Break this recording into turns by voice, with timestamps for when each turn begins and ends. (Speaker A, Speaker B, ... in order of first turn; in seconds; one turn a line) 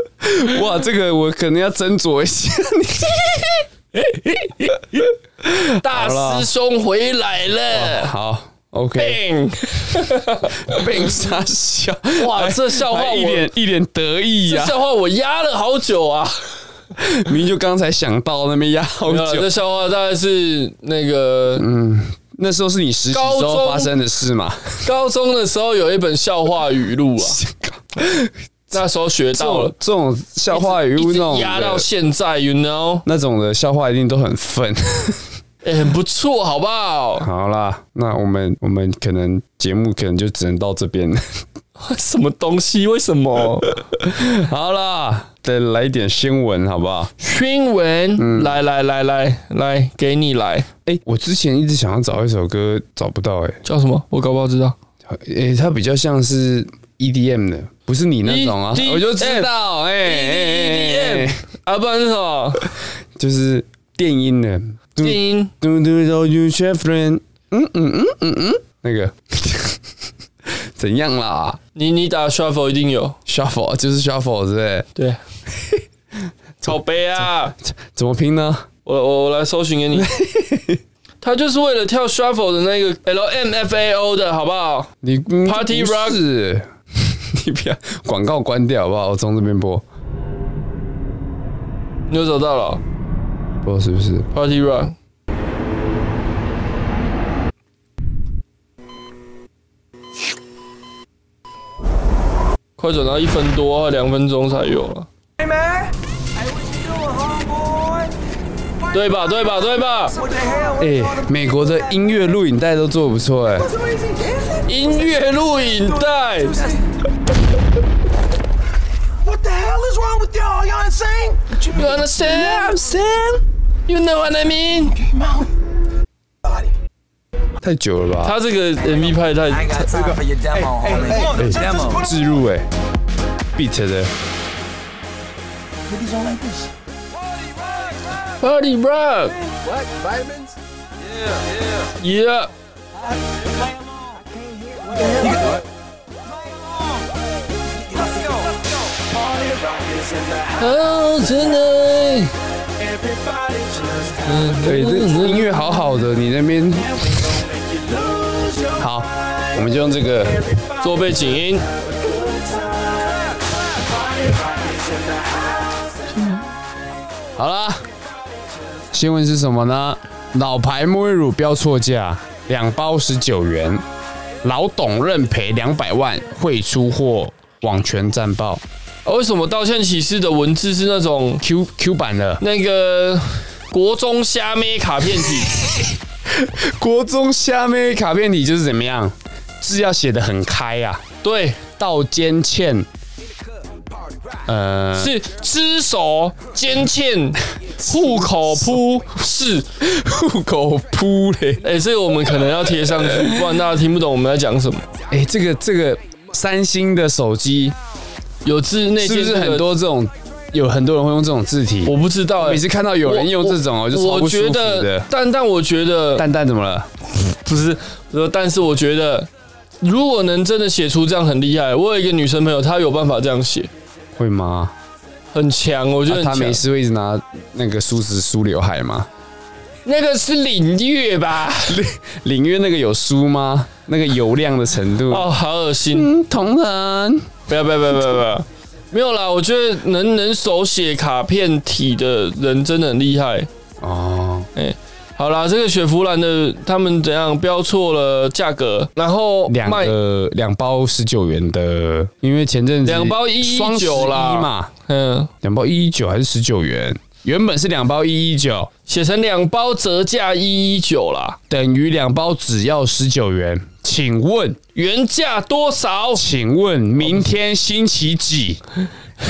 Speaker A: 0.2-3.6
Speaker A: 4.5-6.5
Speaker B: 5.8-8.1
Speaker A: 7.7-9.2
Speaker B: 9.0-10.8
Speaker A: 10.6-14.8
Speaker B: 12.2-13.5
Speaker B: 14.4-16.3
Speaker A: 17.0-19.5
Speaker B: 19.1-21.6
Speaker A: 21.6-24.8
Speaker B: 23.1-23.9
Speaker B: 24.8-27.4
Speaker A: 27.2-28.8
Speaker B: 28.7-29.7
Speaker A: 29.3-31.9
Speaker B: 30.5-33.0
Speaker A: 33.0-35.2
Speaker B: 35.6-37.3
Speaker A: 37.2-41.2
Speaker B: 41.8-43.8
Speaker A: 44.0-47.1
Speaker B: 47.2-50.7
Speaker A: 48.2-48.5
Speaker A: 50.9-53.6
Speaker B: 53.6-54.7
Speaker A: 55.1-61.4
Speaker B: 58.2-59.5
Speaker B: 60.0-62.7
Speaker A: 63.1-69.8
Speaker B: 65.0-65.5
Speaker A: 70.5-71.6
Speaker B: 71.7-73.2
Speaker A: 73.3-74.9
Speaker A: 75.5-75.8
Speaker B: 76.6-77.5
Speaker A: 77.6-78.7
Speaker B: 78.8-80.1
Speaker A: 79.9-80.8
Speaker B: 81.2-84.9
Speaker A: 85.0-89.8
Speaker B: 85.4-86.2
Speaker B: 92.1-92.8
Speaker A: 93.6-94.3
Speaker B: 94.3-94.9
Speaker B: 102.8-105.1
Speaker B: 108.9-110.2
Speaker A: 110.8-113.7
Speaker B: 114.6-116.6
Speaker B: 121.7-122.8
Speaker A: 122.2-123.4
Speaker B: 123.9-125.0
Speaker A: 127.6-128.3
Speaker B: 128.2-129.8
Speaker C: 129.6-132.0
Speaker A: 131.3-132.7
Speaker A: 133.5-134.1
Speaker B: 138.4-139.3
Speaker B: 142.0-142.5
Speaker B: 150.6-152.3
Speaker B: 154.2-155.5
Speaker A: 154.6-157.2
Speaker A: 158.6-160.4
Speaker B: 160.8-161.7
Speaker A: 167.3-167.9
Speaker A: 168.9-173.8
Speaker A: 174.4-178.6
Speaker B: 179.0-181.4
Speaker A: 181.4-182.4
Speaker B: 182.4-185.6
Speaker A: 186.3-191.0
Speaker B: 191.2-191.6
Speaker A: 191.8-192.9
Speaker A: 194.4-195.2
Speaker B: 194.9-199.7
Speaker A: 199.8-201.6
Speaker B: 201.6-204.8
Speaker A: 202.9-203.5
Speaker A: 205.1-207.8
Speaker B: 208.4-209.7
Speaker A: 209.0-215.1
Speaker B: 211.8-216.2
Speaker A: 216.2-216.9
Speaker B: 217.3-219.3
Speaker B: 219.8-223.7
Speaker A: 224.1-224.7
Speaker B: 225.3-226.6
Speaker A: 226.1-229.1
Speaker B: 229.8-231.8
Speaker A: 231.7-235.3
Speaker B: 235.1-236.1
Speaker A: 235.9-237.3
Speaker B: 237.5-243.5
Speaker A: 243.8-244.5
Speaker B: 244.5-249.9
Speaker A: 249.5-254.7
Speaker B: 252.8-255.3
Speaker A: 255.4-258.7
Speaker B: 258.9-261.4
Speaker A: 261.5-264.6
Speaker B: 264.7-266.2
Speaker A: 266.1-268.6